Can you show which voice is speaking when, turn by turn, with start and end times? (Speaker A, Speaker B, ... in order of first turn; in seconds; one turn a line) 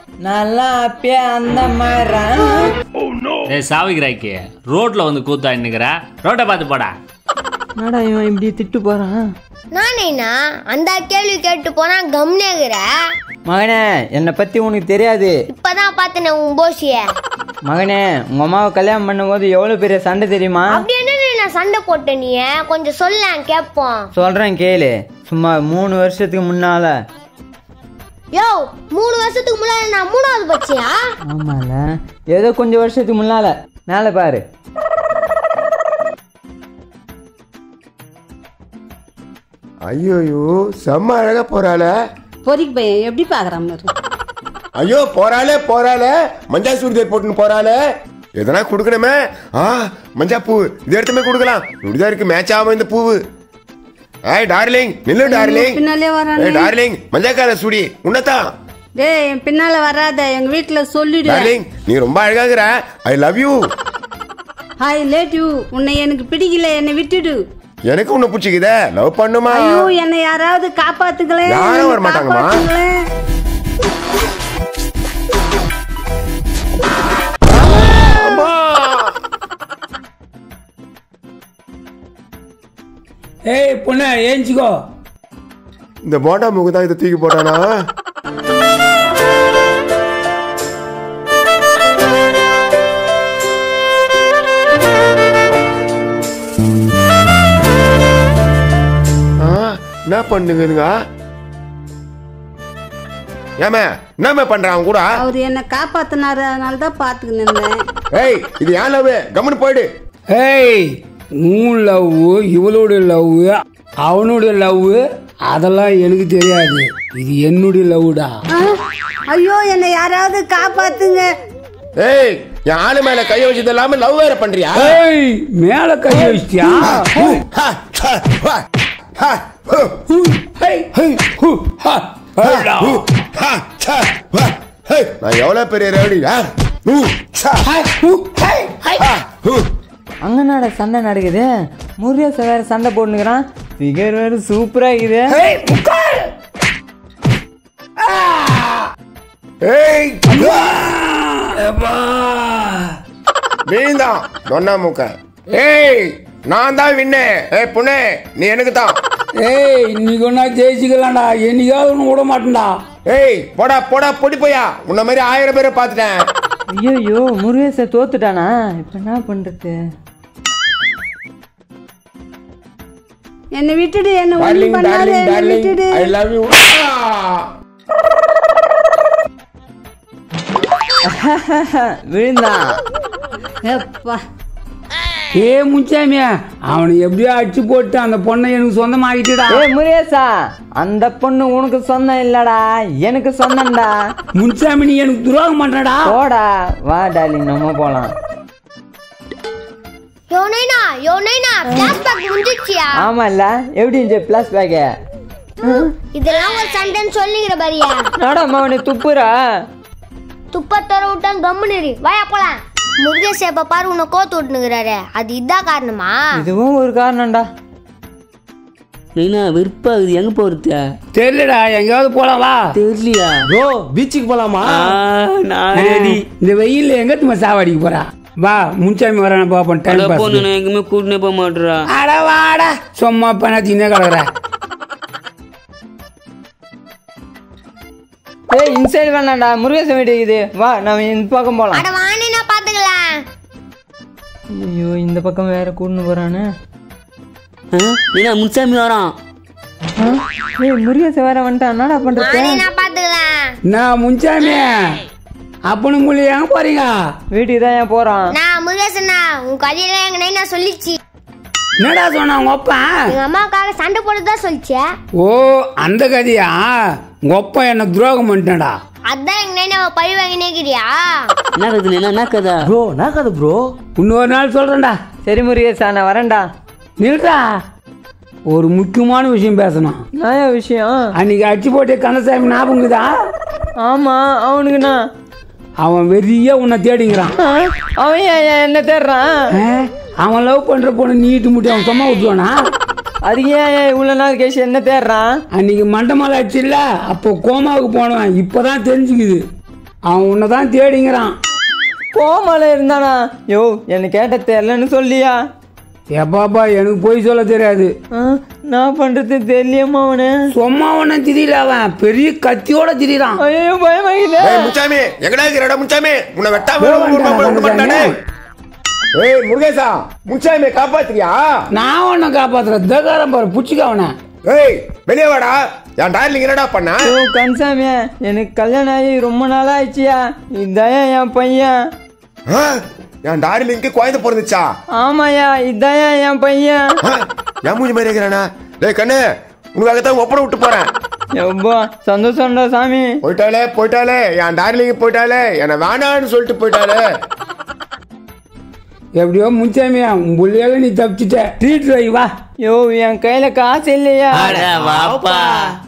Speaker A: 0.3-2.7
Speaker B: 3.5-6.9
Speaker A: 7.8-9.3
Speaker C: 9.7-12.9
Speaker A: 13.5-15.4
Speaker C: 15.5-17.1
Speaker A: 17.7-20.8
Speaker C: 20.7-24.1
Speaker A: 24.2-26.9
Speaker C: 28.3-31.0
Speaker A: 31.3-34.4
Speaker D: 39.9-41.9
Speaker E: 42.5-43.9
Speaker D: 44.8-47.8
Speaker D: 48.4-53.2
Speaker D: 54.3-55.8
Speaker E: 55.2-56.7
Speaker D: 56.4-58.4
Speaker E: 59.0-61.5
Speaker D: 61.2-63.6
Speaker E: 64.8-67.4
Speaker D: 67.9-69.9
Speaker E: 69.5-72.9
Speaker D: 71.5-72.6
Speaker D: 77.5-79.1
Speaker F: 83.5-84.8
Speaker D: 86.0-87.7
Speaker D: 99.4-100.9
Speaker D: 103.6-105.1
Speaker E: 105.2-107.8
Speaker D: 108.1-109.9
Speaker F: 110.3-118.3
Speaker E: 119.3-121.3
Speaker D: 122.0-125.0
Speaker F: 124.8-127.4
Speaker D: 126.8-128.6
Speaker D: 129.2-130.0
Speaker F: 130.2-133.0
Speaker D: 132.4-137.7
Speaker F: 137.7-139.0
Speaker D: 139.0-139.7
Speaker A: 140.2-145.4
Speaker F: 145.3-146.3
Speaker F: 148.1-148.8
Speaker D: 149.6-150.8
Speaker F: 150.3-152.6
Speaker D: 153.7-159.0
Speaker F: 159.4-162.8
Speaker D: 163.1-166.2
Speaker A: 166.7-169.8
Speaker E: 173.5-176.1
Speaker D: 174.4-177.5
Speaker A: 181.1-182.6
Speaker E: 183.7-184.2
Speaker F: 185.4-189.6
Speaker A: 189.5-193.9
Speaker F: 194.4-196.2
Speaker A: 196.1-198.1
Speaker C: 200.3-203.0
Speaker A: 203.0-204.9
Speaker C: 206.1-208.0
Speaker A: 208.2-209.3
Speaker C: 210.5-216.3
Speaker A: 216.4-217.4
Speaker G: 219.2-220.8
Speaker F: 221.1-222.8
Speaker G: 222.8-223.5
Speaker H: 223.5-224.9
Speaker G: 224.6-226.2
Speaker F: 225.7-230.5
Speaker G: 229.9-231.9
Speaker F: 231.9-234.3
Speaker A: 238.5-241.8
Speaker C: 241.7-243.2
Speaker A: 244.5-246.5
Speaker G: 247.7-249.1
Speaker A: 250.0-252.6
Speaker C: 252.2-253.5
Speaker F: 253.7-255.0
Speaker F: 255.7-257.1
Speaker A: 257.3-258.2
Speaker C: 258.3-261.0
Speaker F: 261.8-263.1
Speaker C: 263.1-264.8
Speaker F: 265.2-268.8
Speaker C: 269.1-271.3
Speaker G: 271.6-272.7
Speaker H: 272.6-273.7
Speaker F: 274.0-275.0
Speaker A: 275.3-276.4
Speaker F: 277.0-277.6
Speaker F: 278.5-280.0
Speaker A: 280.2-281.0
Speaker F: 281.2-283.1
Speaker A: 283.8-285.0
Speaker F: 285.8-287.3
Speaker A: 287.4-289.4
Speaker F: 289.6-292.6
Speaker A: 293.3-295.3
Speaker F: 295.5-299.4
Speaker F: 300.1-301.4
Speaker A: 302.1-305.4
Speaker F: 306.1-307.9
Speaker A: 308.2-310.3
Speaker F: 310.5-313.4
Speaker A: 313.4-314.7
Speaker D: 314.4-318.1
Speaker F: 316.8-318.2
Speaker D: 319.1-321.6
Speaker F: 321.7-324.1
Speaker D: 324.5-327.1
Speaker A: 327.0-331.8
Speaker D: 332.5-332.8
Speaker D: 333.3-334.7
Speaker A: 334.9-336.8
Speaker D: 337.1-339.2
Speaker D: 339.8-340.9
Speaker A: 341.4-343.1
Speaker D: 343.2-347.0
Speaker F: 349.2-352.3
Speaker A: 352.6-354.5
Speaker G: 354.4-355.6